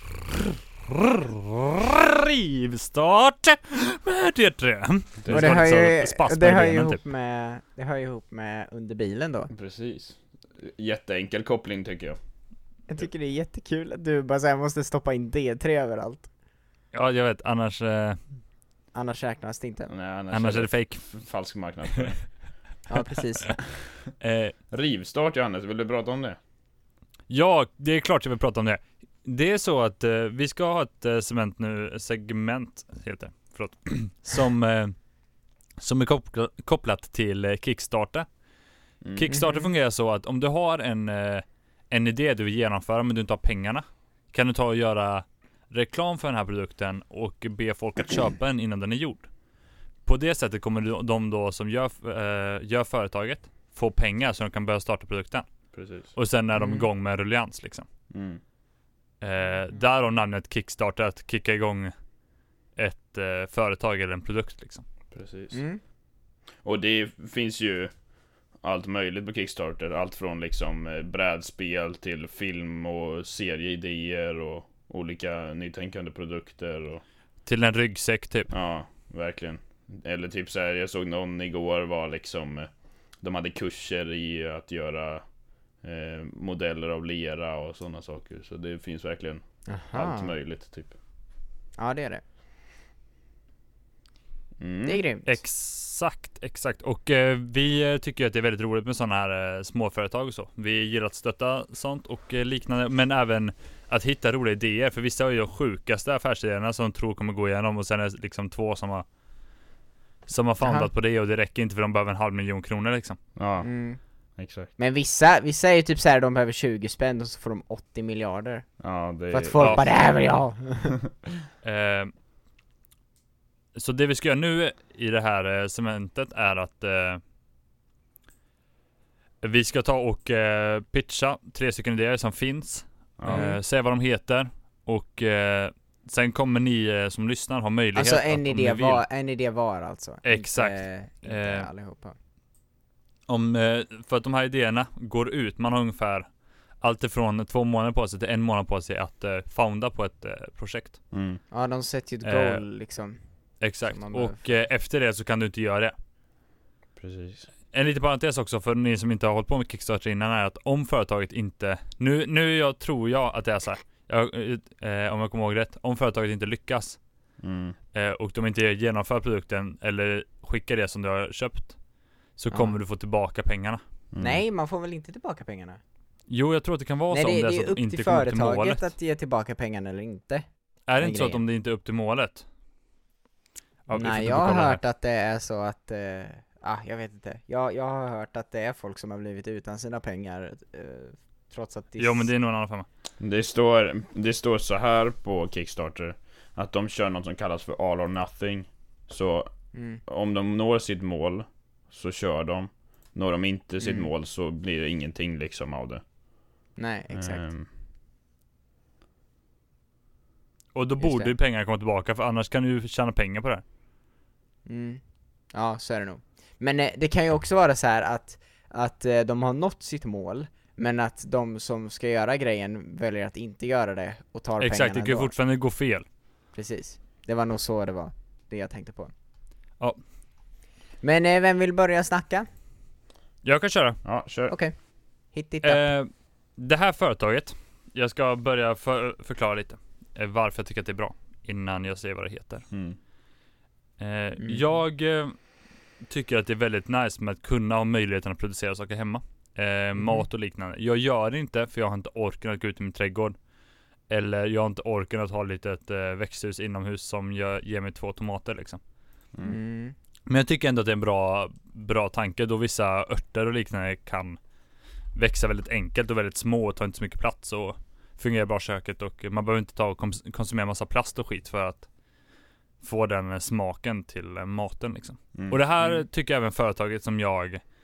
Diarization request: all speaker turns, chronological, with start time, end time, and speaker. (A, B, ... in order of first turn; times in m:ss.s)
0:00.9-0:07.0 A
0:05.2-0:05.6 B
0:05.3-0:09.5 C
0:09.5-0:12.2 B
0:12.9-0:16.3 C
0:16.9-0:18.2 A
0:18.9-0:19.9 C
0:19.9-0:22.2 B
0:20.3-0:21.1 A
0:22.9-0:23.6 C
0:24.2-0:24.5 A
0:24.7-0:26.4 B
0:27.3-0:35.0 A
0:35.8-0:38.3 A
0:39.0-0:39.3 B
0:39.1-0:49.3 A
0:39.3-0:39.6 C
0:50.0-0:55.5 A
0:55.7-0:56.1 B
0:56.1-0:57.9 A
0:56.6-0:56.8 C
0:58.1-0:58.4 B
0:59.2-1:01.9 A
1:02.8-1:04.8 A
1:05.1-1:05.6 B
1:05.5-1:05.8 C
1:06.6-1:07.9 B
1:08.6-1:17.0 B
1:17.4-1:18.5 A
1:18.5-1:22.7 B
1:23.2-1:25.2 B
1:25.8-1:30.9 B
1:29.7-1:30.3 C
1:31.8-1:32.2 C
1:34.6-1:35.0 B
1:34.8-1:35.3 C
1:35.2-1:49.0 A
1:50.3-1:53.2 A
1:50.6-1:50.9 C
1:53.4-1:53.7 B
1:53.6-1:54.0 C
1:54.4-1:54.7 B
1:54.8-1:58.7 C
1:58.8-2:00.0 B
1:59.3-2:01.0 C
1:59.6-1:59.8 A
2:01.6-2:02.1 A
2:03.7-2:07.2 A
2:09.4-2:19.0 A
2:13.2-2:13.5 B
2:13.3-2:13.6 C
2:17.9-2:22.2 C
2:20.2-2:21.7 A
2:23.3-2:26.3 A
2:26.8-2:31.0 A
2:31.1-2:31.4 B
2:31.5-2:33.2 C
2:32.2-2:32.6 A
2:33.6-2:35.9 A
2:33.8-2:34.5 C
2:37.0-2:37.5 B
2:37.7-2:47.0 A
2:47.4-2:47.8 B
2:47.9-2:51.8 A
2:52.4-2:53.8 A
2:52.5-2:52.8 C
2:54.1-2:54.4 B
2:54.2-2:55.8 C
2:56.3-2:58.9 A
2:57.1-3:00.4 C
3:00.9-3:02.4 A
3:01.0-3:01.4 C
3:03.9-3:04.8 A
3:03.9-3:12.3 C
3:12.0-3:12.8 A
3:13.2-3:19.5 B
3:19.7-3:20.0 C
3:20.0-3:26.0 B
3:23.8-3:24.1 C
3:26.8-3:27.4 C
3:27.1-3:27.7 B
3:30.7-3:33.6 A
3:31.0-3:31.3 C
3:34.6-3:35.0 C
3:35.5-3:45.3 C
3:44.6-3:46.0 A
3:46.5-3:49.1 C
3:51.0-3:52.5 C
3:53.4-3:54.0 A
3:54.0-3:54.5 B
3:54.5-3:54.7 C
3:55.3-3:55.9 C
3:55.6-4:02.7 A
4:02.7-4:03.0 B
4:04.0-4:05.4 A
4:06.1-4:13.4 A
4:10.0-4:10.2 C
4:14.1-4:18.8 A
4:19.4-4:19.9 C
4:20.3-4:24.4 A
4:25.1-4:31.9 A
4:32.8-4:37.6 A
4:35.3-4:35.6 B